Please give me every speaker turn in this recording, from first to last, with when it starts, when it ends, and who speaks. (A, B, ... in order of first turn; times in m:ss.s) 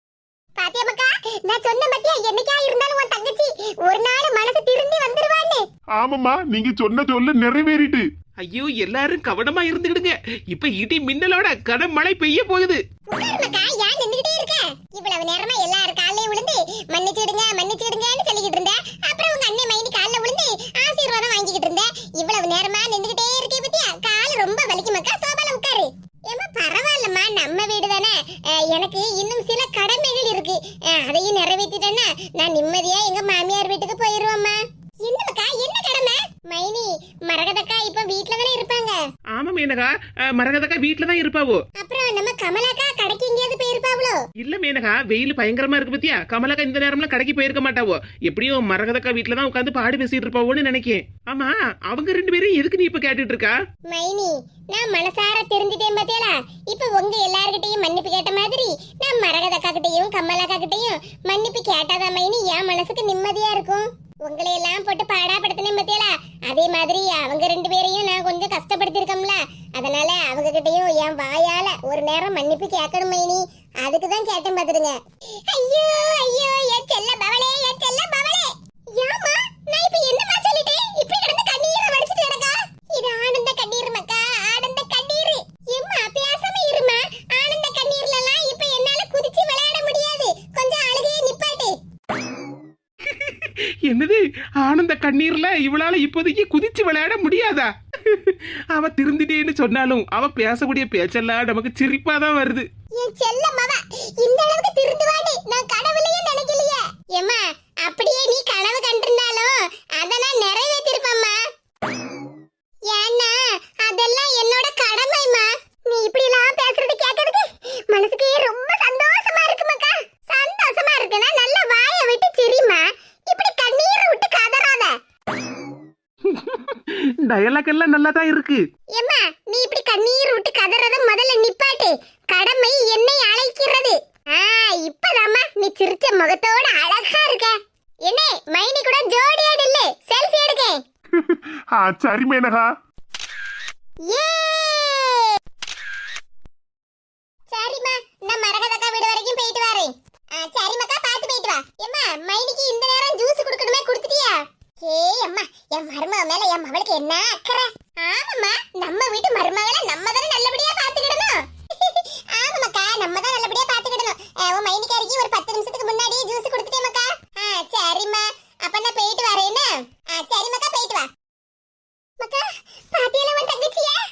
0:00.6-0:05.6 A
0:06.0-0:08.0 B
0:08.4-0:12.8 C
0:13.1-0:39.0 A
0:39.3-0:41.6 C
0:41.8-0:44.2 A
0:44.4-0:53.6 C
0:53.9-1:31.8 A
1:33.0-1:42.7 C
1:43.0-1:51.4 A
1:52.9-2:04.9 A
2:06.2-2:08.6 C
2:08.9-2:17.6 A
2:18.1-2:20.8 A
2:21.1-2:22.7 B
2:24.0-2:25.3 A
2:27.5-2:51.1 A
2:52.2-2:54.0 A